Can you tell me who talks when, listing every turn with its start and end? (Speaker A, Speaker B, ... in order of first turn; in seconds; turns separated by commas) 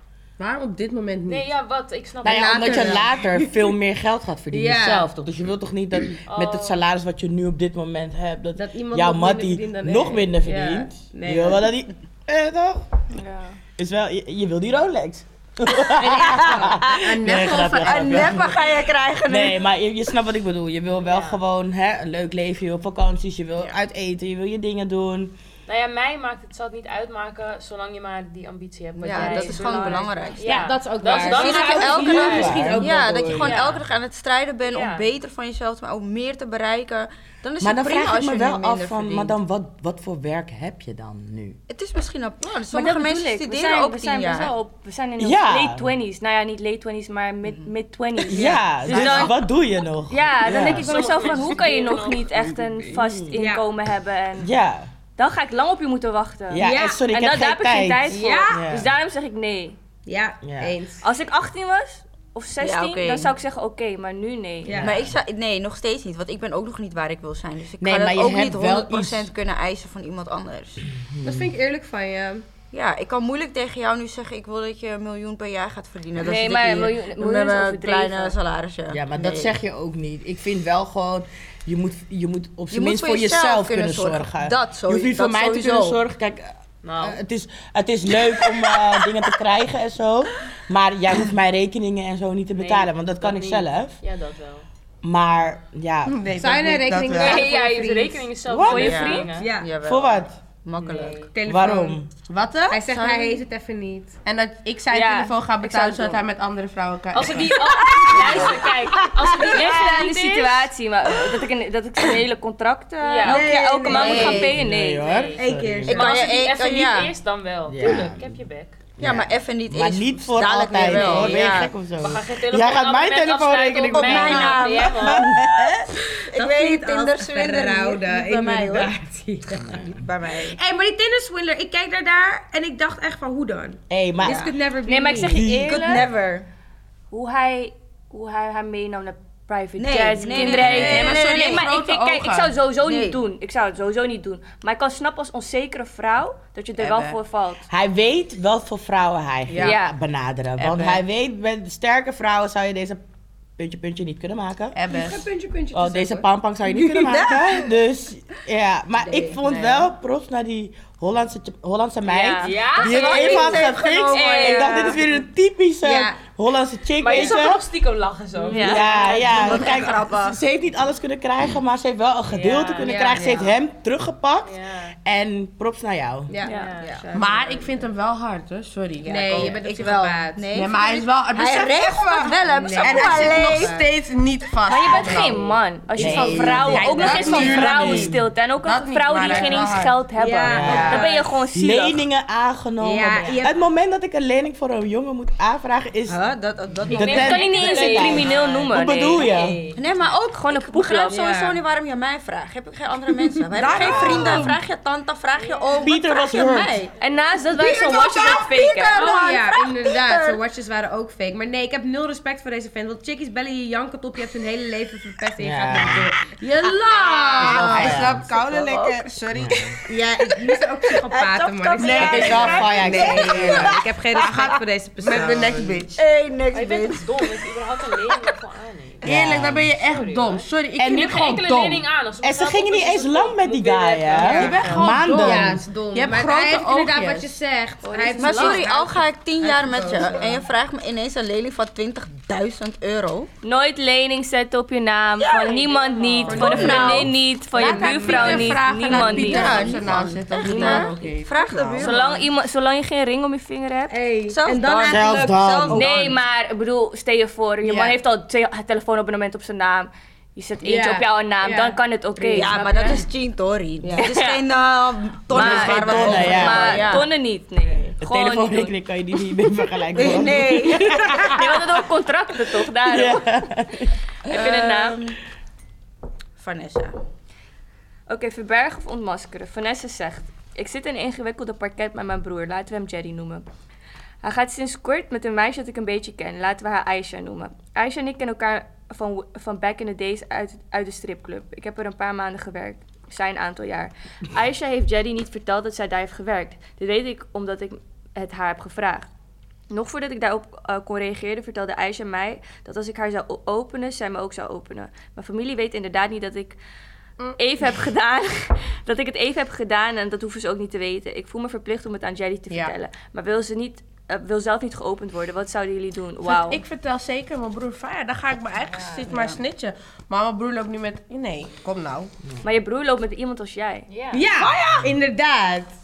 Speaker A: 0.4-1.3, Speaker B: 1.3-3.1, Speaker C: 2.2-13.0, Speaker D: 2.2-3.5, Speaker D: 4.5-5.1, Speaker B: 6.3-6.8, Speaker D: 8.6-11.7, Speaker E: 13.1-13.6, Speaker C: 13.8-25.4, Speaker D: 16.0-17.6, Speaker A: 16.9-18.4, Speaker F: 17.3-19.6, Speaker B: 21.0-21.4, Speaker B: 25.7-32.6, Speaker F: 29.0-39.4, Speaker E: 29.1-30.1, Speaker D: 29.2-29.5, Speaker D: 30.4-33.5, Speaker C: 31.5-33.5, Speaker B: 33.3-33.9, Speaker B: 34.6-35.1, Speaker C: 37.6-41.6, Speaker F: 41.7-44.5, Speaker E: 42.7-49.5, Speaker C: 45.2-45.9, Speaker F: 47.5-47.7, Speaker C: 48.3-51.0, Speaker F: 48.3-49.2, Speaker E: 50.1-54.5, Speaker B: 50.5-52.6, Speaker C: 53.0-53.4, Speaker D: 53.3-53.6, Speaker C: 54.4-54.9, Speaker E: 55.2-59.8, Speaker C: 56.5-58.9, Speaker D: 56.6-57.0, Speaker D: 58.1-58.6, Speaker D: 60.1-61.0, Speaker C: 60.4-60.7, Speaker E: 61.0-64.8, Speaker F: 62.6-63.3, Speaker D: 64.7-65.0, Speaker C: 64.7-65.1, Speaker F: 64.8-70.8, Speaker C: 67.8-69.3, Speaker C: 71.0-71.5, Speaker D: 71.2-72.4, Speaker F: 72.7-79.5, Speaker E: 76.2-78.4, Speaker C: 78.9-94.0, Speaker F: 82.7-86.0, Speaker B: 86.8-87.2, Speaker B: 92.6-94.7, Speaker C: 95.0-96.3, Speaker A: 96.1-97.5, Speaker D: 96.3-98.3, Speaker B: 97.0-99.5, Speaker C: 98.5-99.1, Speaker E: 98.6-99.3, Speaker F: 98.8-101.3, Speaker D: 99.3-99.7, Speaker C: 99.8-100.3, Speaker B: 100.8-101.3, Speaker D: 101.3-102.0, Speaker C: 101.5-102.1, Speaker A: 102.3-103.4, Speaker D: 102.7-104.2, Speaker A: 104.2-107.7, Speaker E: 104.9-106.2, Speaker B: 107.1-110.7, Speaker E: 107.9-115.2, Speaker F: 108.0-108.5, Speaker B: 113.0-113.5, Speaker D: 113.2-114.5, Speaker F: 113.9-114.5, Speaker C: 113.9-116.1, Speaker B: 115.0-118.8, Speaker D: 115.4-116.2, Speaker F: 115.9-117.1, Speaker C: 117.7-118.3, Speaker C: 119.0-125.9, Speaker F: 119.0-121.7, Speaker B: 120.8-121.5, Speaker B: 122.0-125.3, Speaker F: 123.9-128.9, Speaker D: 126.3-135.5, Speaker C: 129.5-130.0, Speaker F: 129.6-130.6, Speaker C: 133.9-134.5, Speaker F: 134.2-134.5, Speaker E: 134.8-136.1, Speaker C: 135.3-136.0, Speaker F: 135.6-136.5, Speaker E: 137.1-147.7, Speaker F: 139.8-141.7, Speaker C: 140.4-141.1, Speaker A: 140.8-142.6, Speaker F: 142.8-143.2, Speaker A: 146.8-147.2, Speaker C: 147.7-153.0, Speaker E: 149.6-149.9, Speaker A: 150.6-151.0, Speaker C: 153.6-154.8, Speaker A: 154.7-155.3, Speaker D: 154.8-156.3, Speaker C: 155.7-167.6, Speaker F: 156.7-157.7, Speaker D: 159.1-159.8, Speaker E: 162.1-163.3, Speaker B: 162.4-165.0, Speaker F: 162.8-165.0, Speaker E: 164.3-164.9, Speaker D: 165.8-166.2, Speaker B: 167.0-169.8, Speaker E: 168.5-169.3, Speaker C: 168.6-174.5, Speaker F: 168.7-170.4, Speaker B: 172.3-173.2, Speaker D: 172.8-173.6, Speaker B: 174.4-175.0, Speaker C: 175.0-176.3, Speaker D: 176.3-177.7, Speaker E: 176.4-176.8, Speaker B: 176.5-177.0, Speaker F: 176.8-177.7, Speaker A: 177.1-179.7, Speaker D: 179.1-180.5, Speaker F: 179.1-183.8, Speaker A: 180.5-185.5, Speaker D: 182.4-183.8, Speaker E: 184.7-192.0, Speaker B: 185.0-185.5, Speaker C: 186.0-188.2, Speaker A: 186.1-190.0, Speaker D: 186.8-187.6, Speaker B: 187.2-187.6, Speaker B: 189.3-189.7, Speaker D: 189.3-189.6, Speaker D: 190.2-191.2, Speaker C: 190.5-196.2, Speaker A: 190.6-191.1, Speaker D: 192.8-193.6, Speaker F: 196.1-197.5, Speaker B: 196.9-199.8, Speaker C: 196.9-199.6, Speaker E: 197.1-199.4, Speaker F: 199.8-207.0, Speaker E: 200.2-201.3, Speaker D: 201.1-201.6, Speaker D: 203.3-204.5, Speaker A: 203.6-204.6, Speaker B: 205.4-205.9, Speaker C: 205.8-206.8, Speaker E: 207.0-209.1, Speaker F: 207.5-210.4, Speaker D: 208.9-218.0, Speaker C: 215.4-216.1, Speaker A: 216.6-219.9, Speaker C: 217.4-218.3, Speaker F: 218.4-219.0, Speaker C: 219.3-219.8, Speaker D: 219.9-225.8, Speaker F: 221.1-224.3, Speaker C: 221.8-223.8, Speaker A: 221.8-226.0, Speaker F: 225.1-227.5, Speaker B: 226.5-229.1, Speaker C: 229.0-229.7, Speaker A: 229.0-231.6, Speaker B: 229.7-234.8, Speaker C: 230.8-235.6, Speaker D: 234.2-240.4, Speaker A: 234.2-237.4, Speaker E: 237.9-238.7, Speaker B: 238.2-238.5, Speaker F: 238.2-243.3, Speaker E: 243.4-249.7, Speaker F: 245.2-247.2, Speaker B: 245.6-246.9, Speaker A: 246.3-251.9, Speaker D: 246.5-249.8, Speaker F: 248.9-252.3, Speaker D: 250.4-251.0, Speaker E: 251.8-254.0, Speaker D: 253.9-255.4, Speaker F: 254.3-256.2, Speaker C: 254.8-255.9, Speaker E: 255.7-262.7, Speaker A: 257.6-257.9, Speaker D: 260.6-263.0, Speaker F: 262.3-267.1, Speaker D: 263.8-264.1, Speaker E: 264.0-264.4, Speaker C: 265.3-267.0, Speaker E: 265.3-268.8, Speaker C: 268.0-271.8, Speaker F: 269.9-271.5, Speaker E: 271.1-273.3, Speaker C: 272.7-273.9, Speaker E: 274.3-275.0, Speaker F: 274.3-275.2, Speaker F: 276.4-277.0, Speaker E: 278.1-283.4, Speaker E: 284.2-299.1, Speaker E: 299.7-306.6, Speaker E: 307.4-316.6, Speaker A: 312.5-312.8, Speaker A: 316.2-322.1, Speaker F: 319.1-319.4, Speaker E: 322.4-323.9, Speaker B: 323.9-324.3, Speaker D: 324.1-325.7